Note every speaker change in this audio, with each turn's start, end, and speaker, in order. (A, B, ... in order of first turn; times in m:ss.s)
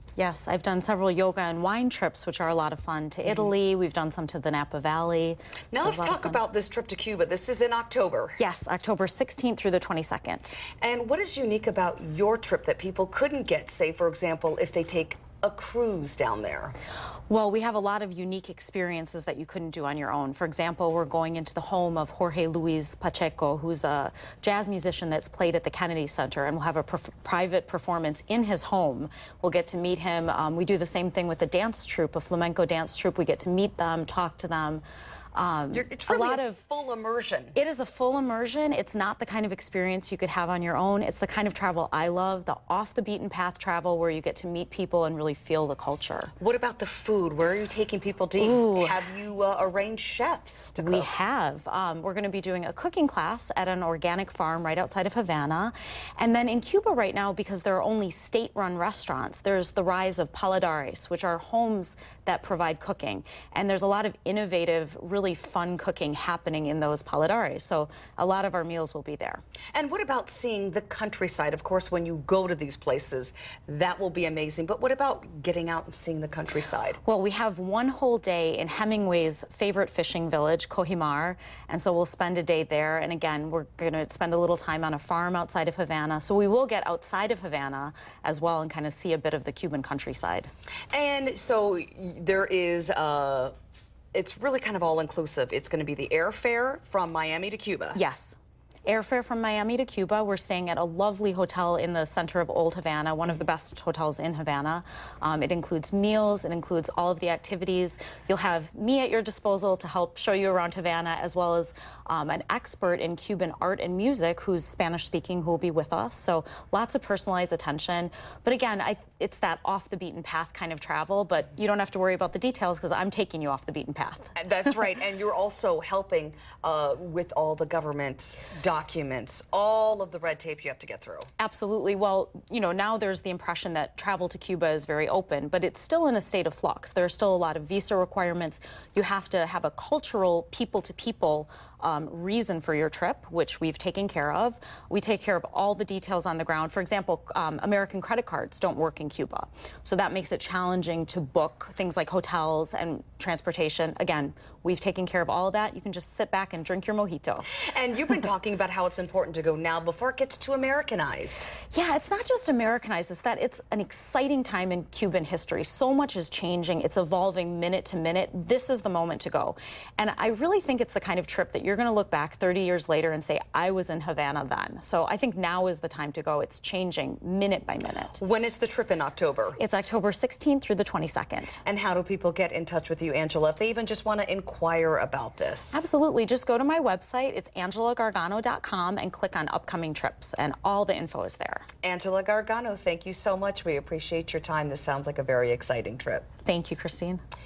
0:00.2-0:06.4 A
0:05.7-0:08.4 B
0:08.4-0:10.6 A
0:10.8-0:16.8 B
0:17.3-0:34.8 A
0:35.4-0:36.6 A
0:35.7-0:37.6 B
0:37.6-0:46.3 A
0:46.4-0:51.1 B
0:48.4-0:49.0 A
0:50.8-1:09.4 A
1:09.7-1:17.0 B
1:17.0-1:30.5 A
1:30.9-1:33.5 B
1:34.1-1:38.0 B
1:38.0-2:04.3 A
2:04.4-2:11.3 B
2:11.4-2:37.5 A
2:37.6-2:41.5 B
2:41.7-2:58.2 A
2:58.2-2:59.6 B
2:59.6-3:01.6 A
3:01.6-3:05.8 B
3:05.7-3:11.7 A
3:11.8-3:16.3 B
3:16.4-3:17.2 A